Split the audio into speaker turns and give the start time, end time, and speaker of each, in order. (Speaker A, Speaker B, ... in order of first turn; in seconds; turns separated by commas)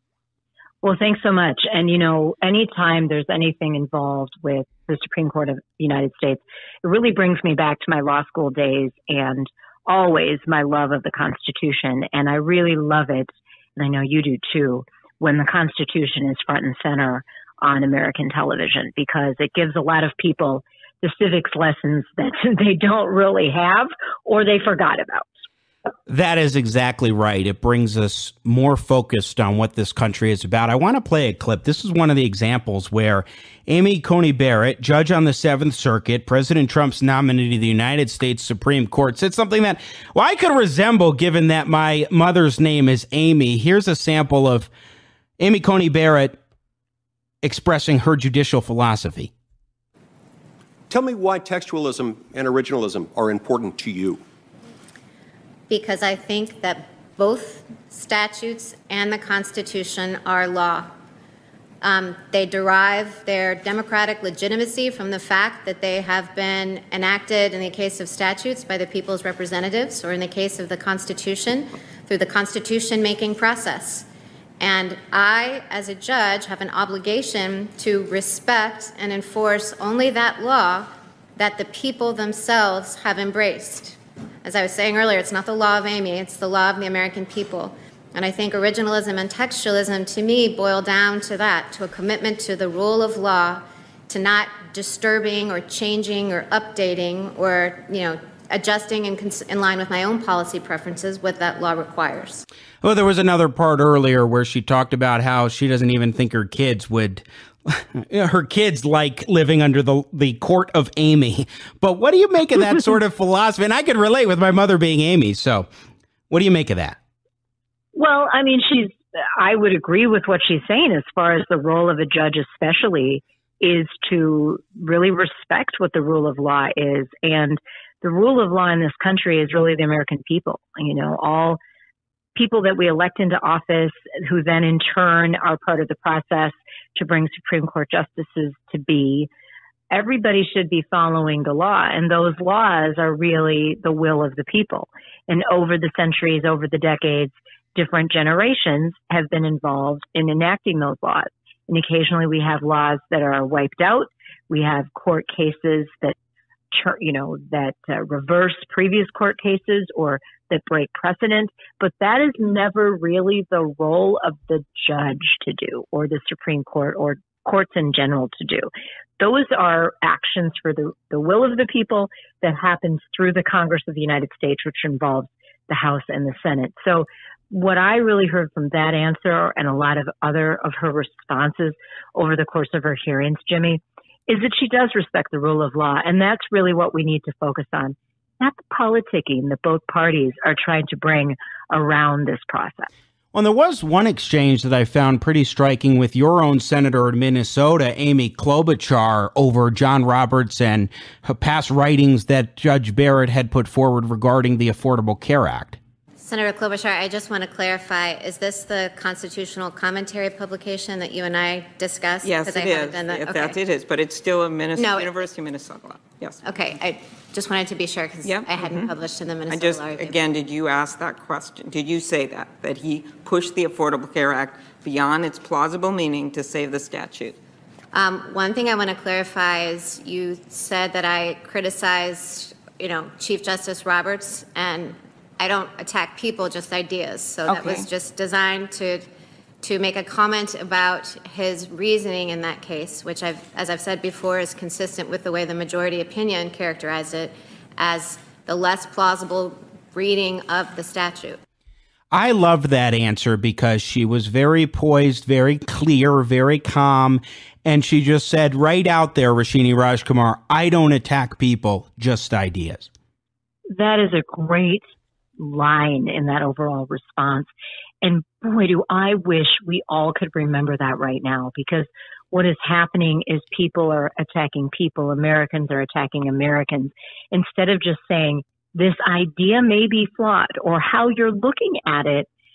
Speaker A: 0.8-25.3, Speaker B: 26.1-44.7, Speaker B: 45.4-46.3, Speaker B: 47.4-49.3, Speaker C: 50.9-54.2, Speaker D: 55.7-60.9, Speaker D: 61.8-74.0, Speaker D: 74.6-102.4, Speaker B: 102.8-115.7, Speaker B: 116.3-117.0, Speaker A: 117.9-131.6, Speaker A: 132.3-139.3, Speaker A: 139.9-156.2, Speaker A: 156.7-192.9, Speaker B: 193.3-205.8, Speaker D: 206.2-213.6, Speaker E: 212.2-216.4, Speaker D: 214.8-215.2, Speaker D: 216.4-220.2, Speaker E: 218.2-218.9, Speaker E: 219.5-227.4, Speaker D: 227.9-239.1, Speaker E: 237.5-237.8, Speaker D: 239.6-251.4, Speaker B: 252.1-262.9, Speaker A: 263.7-264.9, Speaker A: 265.4-267.5, Speaker A: 268.0-282.3